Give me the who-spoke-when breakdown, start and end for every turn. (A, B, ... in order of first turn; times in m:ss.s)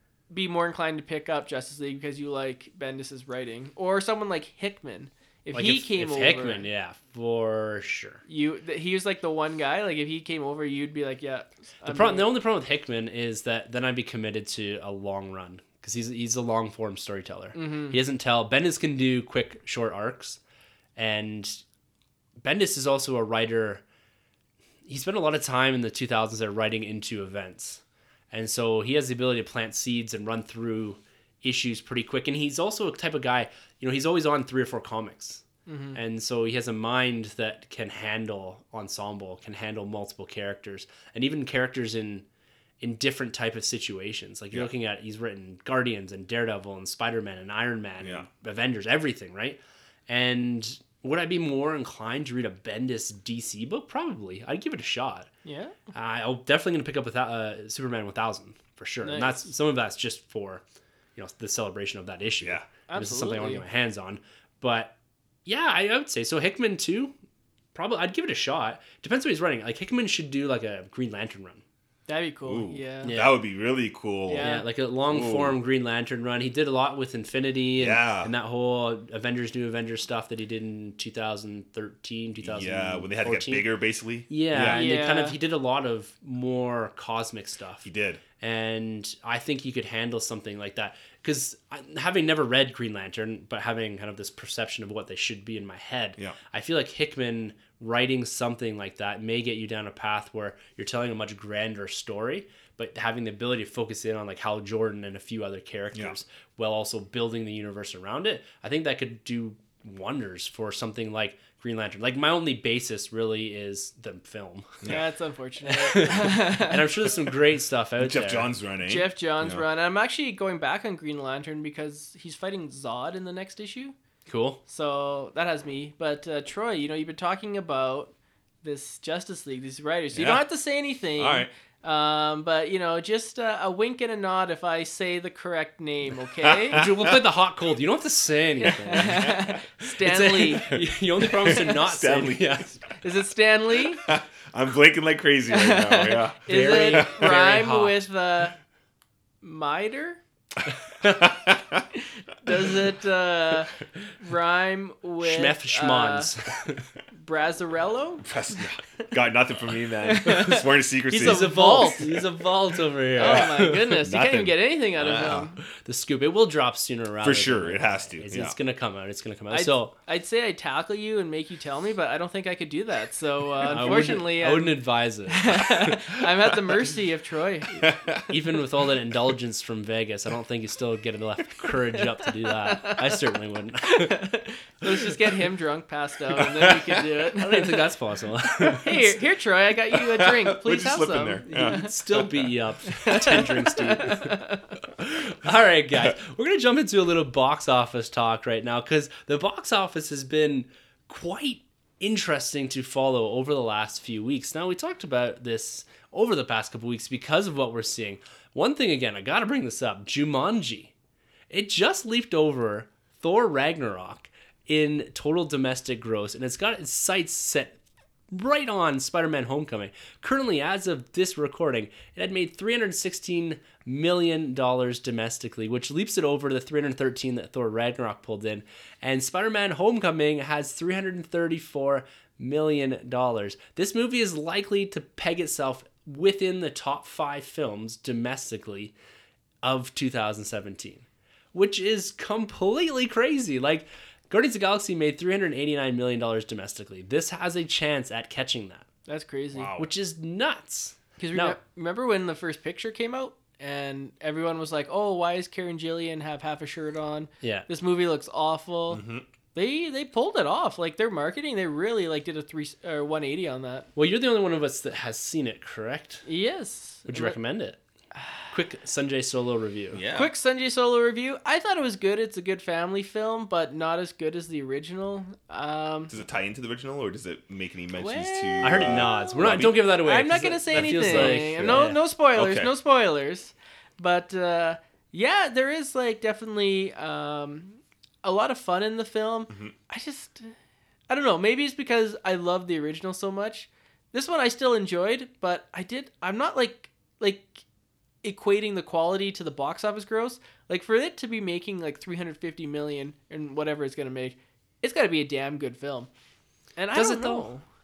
0:00.3-0:06.7 A
0:05.5-0:08.2 B
0:08.3-0:12.3 A
0:11.8-0:20.4 B
0:17.5-0:18.0 A
0:21.0-0:21.6 B
0:22.4-0:23.8 B
0:24.9-0:27.8 B
0:28.3-0:42.2 B
0:35.6-0:36.0 A
0:42.8-0:55.3 B
0:48.0-0:48.3 C
0:55.4-0:55.8 A
0:55.9-1:00.6 B
0:59.0-0:59.5 A
1:01.2-1:04.9 B
1:02.4-1:02.7 C
1:02.9-1:03.6 A
1:05.5-1:07.1 B
1:07.8-1:11.6 B
1:12.1-1:13.2 A
1:12.5-1:14.5 C
1:13.0-1:13.4 B
1:14.3-1:14.7 A
1:14.4-1:23.6 B
1:15.1-1:15.6 C
1:17.8-1:18.3 C
1:22.4-1:24.9 C
1:24.3-1:27.8 B
1:24.6-1:25.4 A
1:27.8-1:28.2 C
1:28.4-1:54.9 B
1:54.8-1:56.9 A
1:55.6-1:58.5 B
1:58.0-1:59.6 C
1:58.8-2:03.9 A
2:04.3-2:04.6 B
2:04.7-2:16.8 A
2:10.1-2:10.5 C
2:11.2-2:11.5 C
2:16.4-2:17.2 C
2:16.7-2:22.8 B
2:18.6-2:20.8 A
2:20.7-2:22.7 C
2:23.0-2:24.1 A
2:24.0-2:27.0 C
2:25.5-2:28.6 A
2:26.5-2:28.0 B
2:29.4-2:30.2 A
2:31.0-2:31.9 C
2:32.4-2:36.3 A
2:35.2-2:36.9 B
2:37.1-2:38.2 A
2:38.2-2:42.2 C
2:40.0-2:42.2 A
2:41.2-2:43.9 B
2:43.2-2:45.6 A
2:43.2-2:45.5 C
2:45.6-2:49.9 B
2:47.2-2:48.5 C
2:49.5-2:57.8 A
2:53.6-2:56.0 B
2:57.8-2:58.3 C
2:58.3-3:04.2 B
3:02.6-3:03.1 A
3:03.8-3:07.8 A
3:06.4-3:07.0 C
3:07.4-3:09.1 B
3:08.6-3:11.9 A
3:09.9-3:12.4 C
3:11.5-3:14.4 B
3:13.0-3:14.6 A
3:15.0-3:30.9 B
3:31.5-3:37.8 B
3:38.3-3:58.9 B
3:59.6-4:08.8 B
4:09.1-4:09.8 A
4:09.5-4:09.9 C
4:09.8-4:11.6 B
4:11.2-4:19.0 A
4:17.4-4:17.7 B
4:18.9-4:19.2 C
4:19.5-4:23.9 A
4:24.0-4:26.2 B
4:26.2-4:27.4 A
4:27.1-4:27.8 B
4:28.5-4:30.0 B
4:29.9-4:30.3 C
4:30.1-4:36.2 A
4:36.1-4:39.8 C
4:37.9-4:50.5 A
4:38.6-4:42.0 B
4:40.7-4:42.7 C
4:51.1-4:57.6 A
4:58.2-5:06.1 A
5:06.8-5:07.6 A
5:06.9-5:07.5 B